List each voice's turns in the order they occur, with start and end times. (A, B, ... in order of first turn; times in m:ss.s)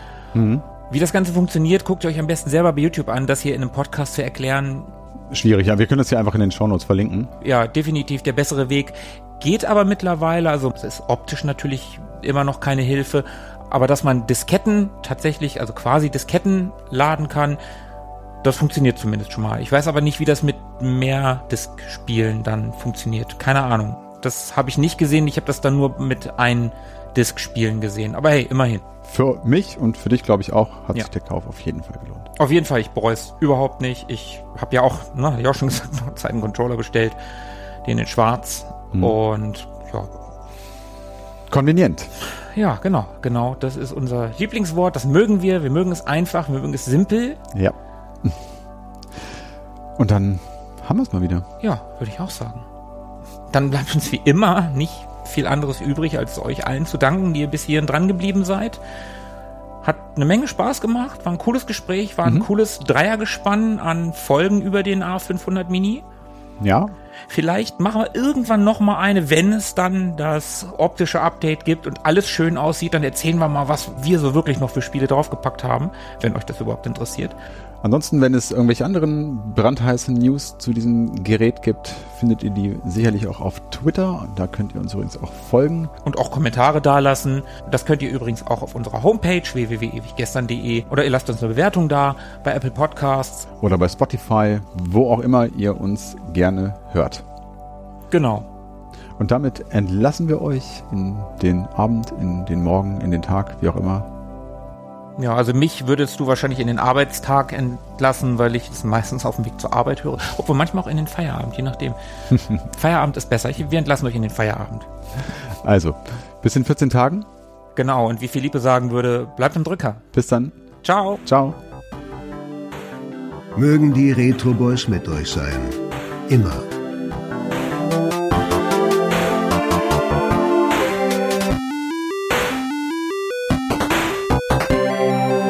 0:00.3-0:00.6 A
0:00.9-0:04.9 B
0:05.3-0:07.3 A
0:07.4-0:17.6 B
0:18.4-0:28.8 B
0:29.0-0:32.3 A
0:32.4-0:37.2 B
0:37.8-0:40.1 B
0:41.5-0:42.1 A
0:42.5-0:47.4 B
0:47.5-0:48.5 A
0:50.0-0:51.4 A
0:51.6-0:52.6 B
0:53.5-0:58.8 B
0:59.8-1:06.0 B
1:06.6-1:06.9 A
1:07.3-1:17.4 B
1:17.8-1:25.9 A
1:26.0-1:33.5 B
1:33.6-1:37.2 A
1:38.1-1:38.5 B
1:39.2-1:44.1 A
1:45.2-1:52.0 B
1:52.3-1:52.6 A
1:52.6-1:54.9 B
1:55.6-1:57.3 A
1:57.8-2:00.0 B
2:00.1-2:00.5 A
2:00.8-2:01.2 B
2:01.2-2:01.6 A
2:03.5-2:06.6 C